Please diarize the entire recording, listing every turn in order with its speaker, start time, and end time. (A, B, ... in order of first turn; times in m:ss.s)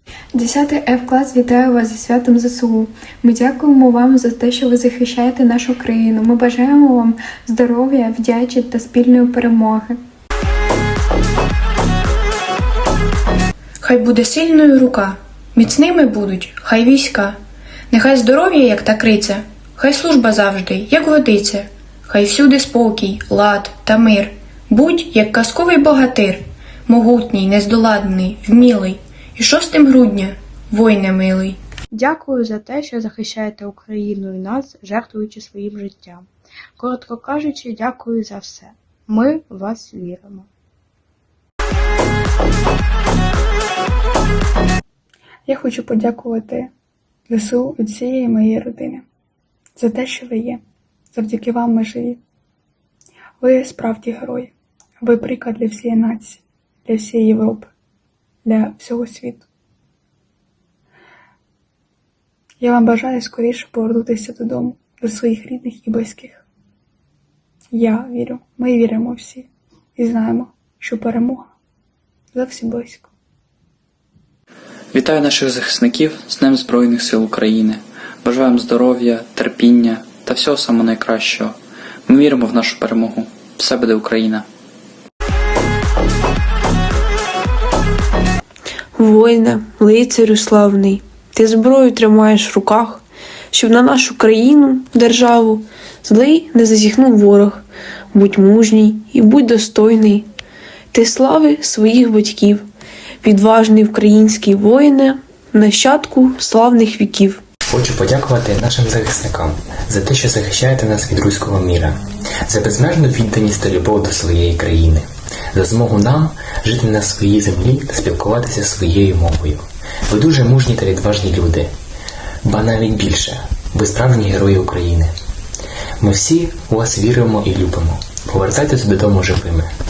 0:00.4-0:10.0 A
0:13.8-0:17.4 B
0:17.9-0:31.6 B
0:31.9-0:36.3 C
0:36.8-0:40.5 C
0:45.5-0:46.7 D
0:47.3-0:49.0 D
0:49.8-0:50.6 D
0:51.1-0:52.2 D
0:53.4-0:57.7 D
0:58.4-0:59.5 D
1:02.6-1:06.4 D
1:07.7-1:11.5 D
1:12.3-1:13.1 D
1:14.9-1:21.5 E
1:22.1-1:24.4 E
1:29.0-1:40.3 F
1:40.9-1:42.7 F
1:43.2-1:47.4 F
1:47.7-2:01.7 G
2:02.4-2:05.1 G
2:06.0-2:09.7 G